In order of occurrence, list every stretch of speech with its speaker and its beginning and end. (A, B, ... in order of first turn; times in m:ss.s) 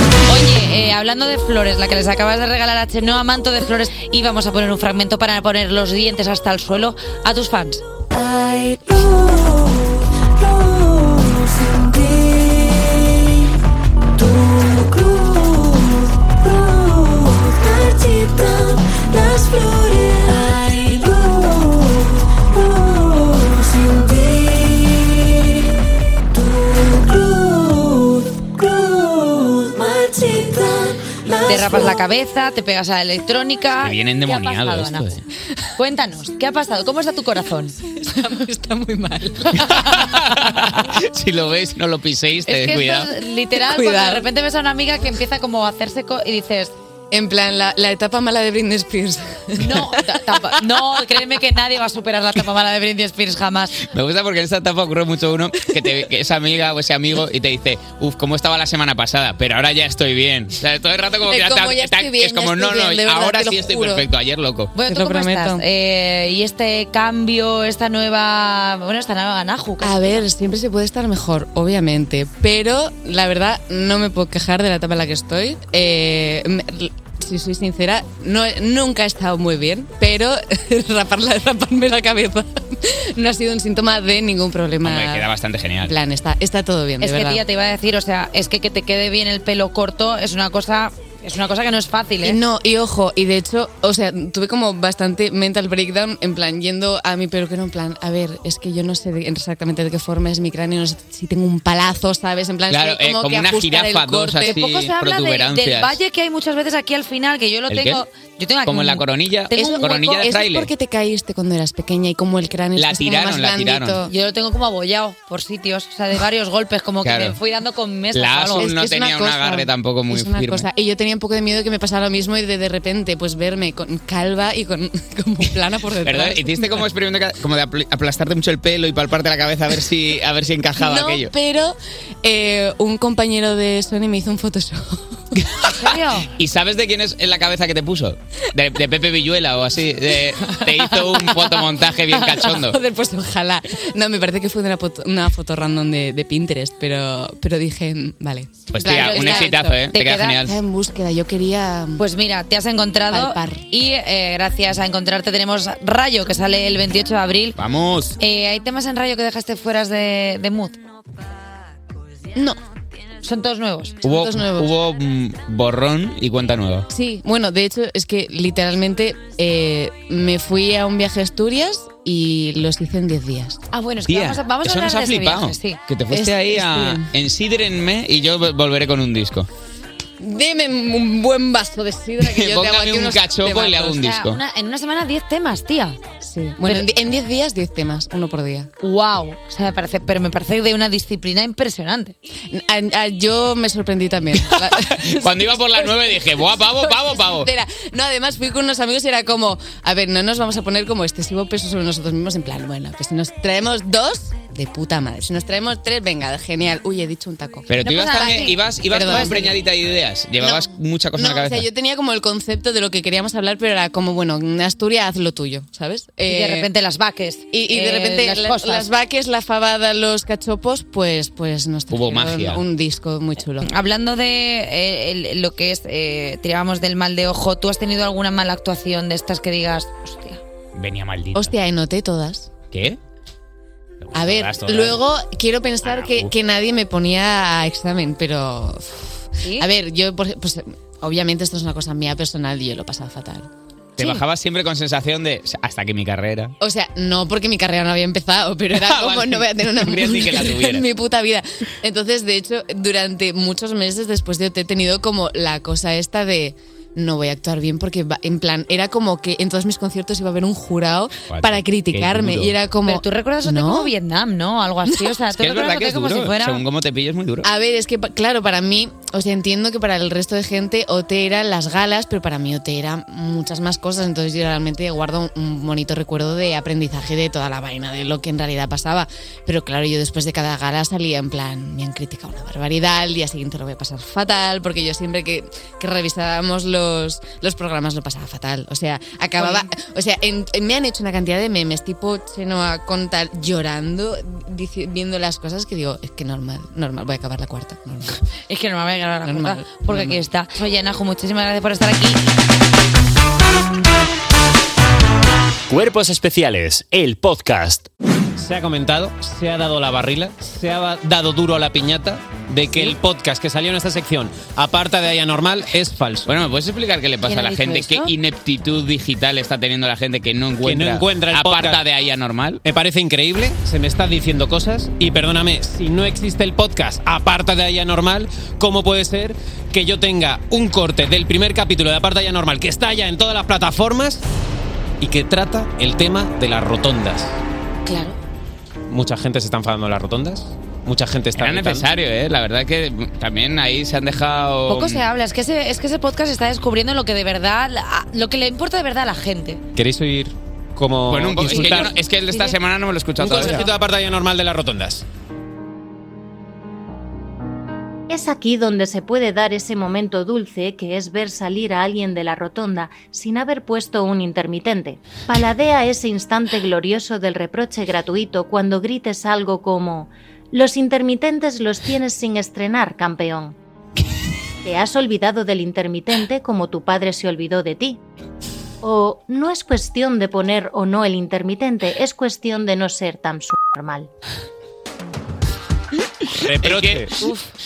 0:00.3-0:07.8 A
0:17.9-0:18.3 B
0:19.2-0:20.1 B
0:29.6-0:30.5 B
0:31.4-0:35.2 A
0:33.8-0:35.1 C
0:35.8-0:37.8 A
0:37.9-0:40.4 D
0:39.6-0:43.1 C
0:42.5-0:46.7 A
0:43.6-0:44.2 D
0:47.1-0:50.6 D
0:49.6-0:53.8 A
0:53.9-1:04.7 C
1:01.2-1:04.0 D
1:04.7-1:10.3 A
1:04.9-1:05.6 D
1:09.8-1:25.2 D
1:24.8-1:25.9 C
1:25.8-1:27.4 D
1:27.0-1:32.4 A
1:32.2-1:44.7 D
1:42.7-1:46.0 C
1:44.4-1:50.2 A
1:47.7-1:48.0 C
1:48.7-1:50.7 C
1:49.6-1:54.1 D
1:52.8-1:54.0 C
1:54.1-1:58.7 A
1:57.0-1:57.4 C
1:58.1-2:00.7 C
1:58.6-2:06.9 D
2:06.0-2:11.3 C
2:10.8-2:15.5 D
2:15.6-2:16.3 A
2:16.4-2:22.8 C
2:20.9-2:21.5 D
2:22.1-2:29.8 D
2:28.7-2:30.6 C
2:28.9-2:30.4 A
2:30.3-2:32.0 D
2:32.0-2:37.6 A
2:33.1-2:33.6 D
2:37.6-2:38.2 C
2:38.2-2:40.8 A
2:43.2-2:44.0 A
2:44.0-2:46.9 C
2:44.0-2:44.7 D
2:46.9-2:53.6 D
2:53.7-2:55.8 A
2:54.1-2:59.5 C
2:56.1-2:57.0 D
3:00.2-3:04.0 D
3:02.2-3:04.4 C
3:04.0-3:06.0 A
3:06.2-3:08.7 D
3:08.8-3:12.2 A
3:12.5-3:29.6 D
3:15.1-3:17.5 C
3:27.7-3:31.7 C
3:27.8-3:28.6 A
3:29.1-3:29.4 A
3:30.4-3:36.7 D
3:36.3-3:38.9 A
3:37.5-3:43.7 D
3:41.9-3:42.6 C
3:43.6-3:50.4 A
3:50.8-3:51.5 C
3:51.3-3:52.5 D
3:52.7-3:53.0 C
3:54.0-3:55.0 C
3:54.1-4:03.5 D
3:55.8-3:56.3 C
3:59.4-3:59.7 A
4:04.0-4:06.5 C
4:06.6-4:23.9 D
4:08.7-4:10.9 C
4:21.3-4:22.5 C
4:22.8-4:26.6 A
4:25.3-4:27.5 C
4:27.4-4:58.2 D
4:49.4-4:49.6 A
4:58.5-5:02.3 A
4:59.2-5:00.2 D
5:05.7-5:07.9 E
5:08.4-5:16.3 F
5:16.3-5:22.6 C
5:17.2-5:18.1 A
5:20.6-5:21.8 F
5:22.6-5:34.2 F
5:35.0-5:37.4 F
5:37.8-5:38.2 A
5:38.9-5:41.9 F
5:41.4-5:45.0 C
5:44.7-5:49.6 A
5:49.8-5:51.9 F
5:51.1-5:53.7 C
5:51.4-5:52.5 A
5:53.2-5:55.0 F
5:58.1-6:13.5 G
6:14.6-6:18.0 G
6:18.8-6:24.1 G
6:26.4-6:27.1 F
6:26.6-6:27.1 C
6:27.2-6:27.5 A